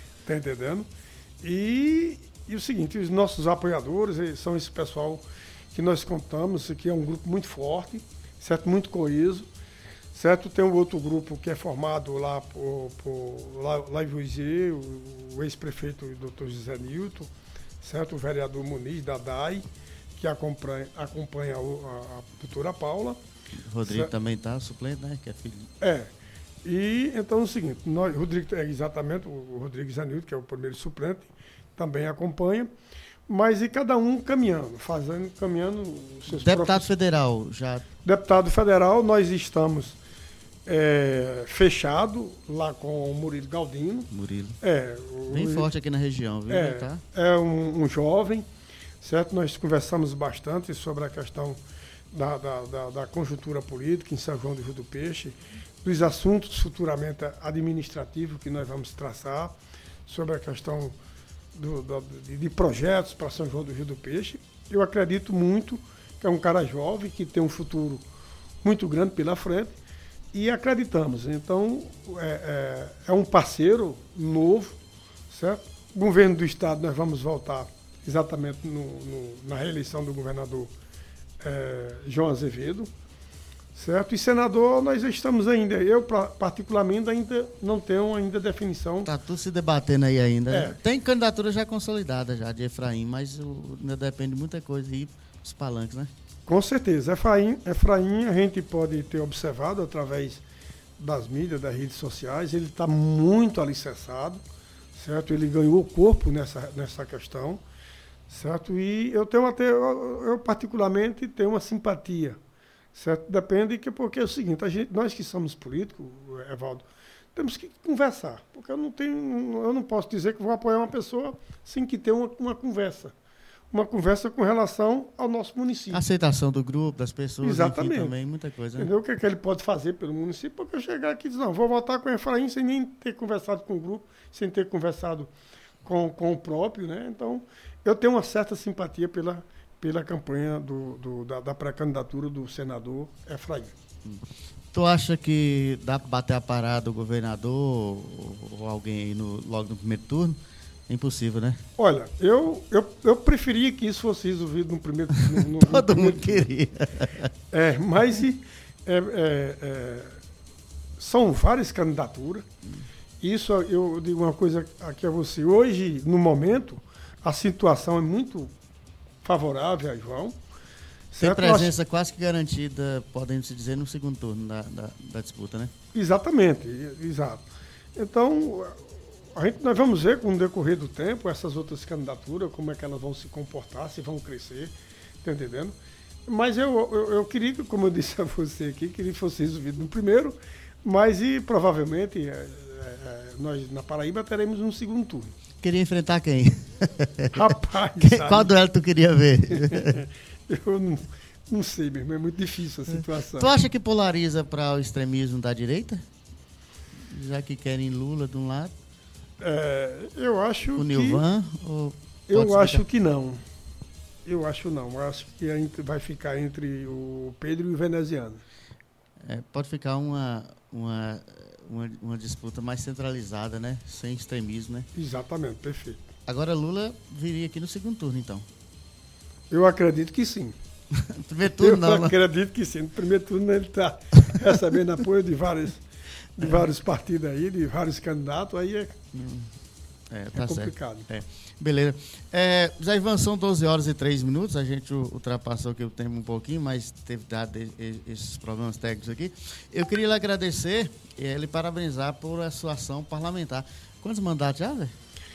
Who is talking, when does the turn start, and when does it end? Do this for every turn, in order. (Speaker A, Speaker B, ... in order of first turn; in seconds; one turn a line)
Speaker A: 0.2-0.9
Speaker A: 1.4-9.4
Speaker A: 10.1-17.3
Speaker A: 17.8-19.6
Speaker A: 20.2-23.2
Speaker B: 23.7-25.7
Speaker A: 23.8-24.1
Speaker A: 25.8-26.1
Speaker A: 26.6-32.7
Speaker A: 33.3-36.9
Speaker B: 36.3-37.8
Speaker A: 38.0-40.0
Speaker A: 40.6-44.1
Speaker B: 44.1-44.6
Speaker A: 44.6-45.7
Speaker B: 45.3-47.0
Speaker A: 46.5-48.5
Speaker A: 49.0-51.6
Speaker A: 52.1-59.5
Speaker A: 60.1-60.9
Speaker A: 61.5-68.0
Speaker A: 68.6-69.7
Speaker A: 70.3-74.8
Speaker A: 75.3-80.7
Speaker A: 81.4-82.9
Speaker A: 83.7-89.1
Speaker B: 89.0-96.1
Speaker A: 90.5-90.8
Speaker A: 96.5-100.4
Speaker A: 101.0-104.4
Speaker A: 104.9-107.6
Speaker A: 108.3-112.4
Speaker A: 112.9-123.1
Speaker A: 123.7-126.0
Speaker B: 125.9-128.9
Speaker A: 127.4-128.1
Speaker A: 128.8-135.3
Speaker A: 135.8-143.7
Speaker B: 144.0-150.4
Speaker B: 150.9-151.6
Speaker A: 151.8-156.5
Speaker B: 155.3-157.3
Speaker A: 157.5-160.2
Speaker A: 161.0-162.4
Speaker A: 163.2-168.5
Speaker A: 169.2-170.3
Speaker A: 171.1-171.7
Speaker B: 171.2-175.7
Speaker A: 175.9-178.8
Speaker A: 179.3-185.7
Speaker A: 186.3-195.3
Speaker B: 195.6-200.0
Speaker A: 197.3-198.5
Speaker A: 199.5-203.6
Speaker B: 202.9-206.0
Speaker B: 207.1-208.7
Speaker A: 209.4-211.2
Speaker B: 210.8-212.8
Speaker A: 212.3-213.4
Speaker A: 214.2-218.4
Speaker B: 219.2-224.9
Speaker A: 224.9-226.0
Speaker B: 226.3-228.4
Speaker A: 229.5-230.5
Speaker B: 230.9-232.1
Speaker A: 231.5-235.8
Speaker A: 236.4-238.9
Speaker B: 239.1-239.5
Speaker B: 240.1-254.9
Speaker A: 240.3-241.1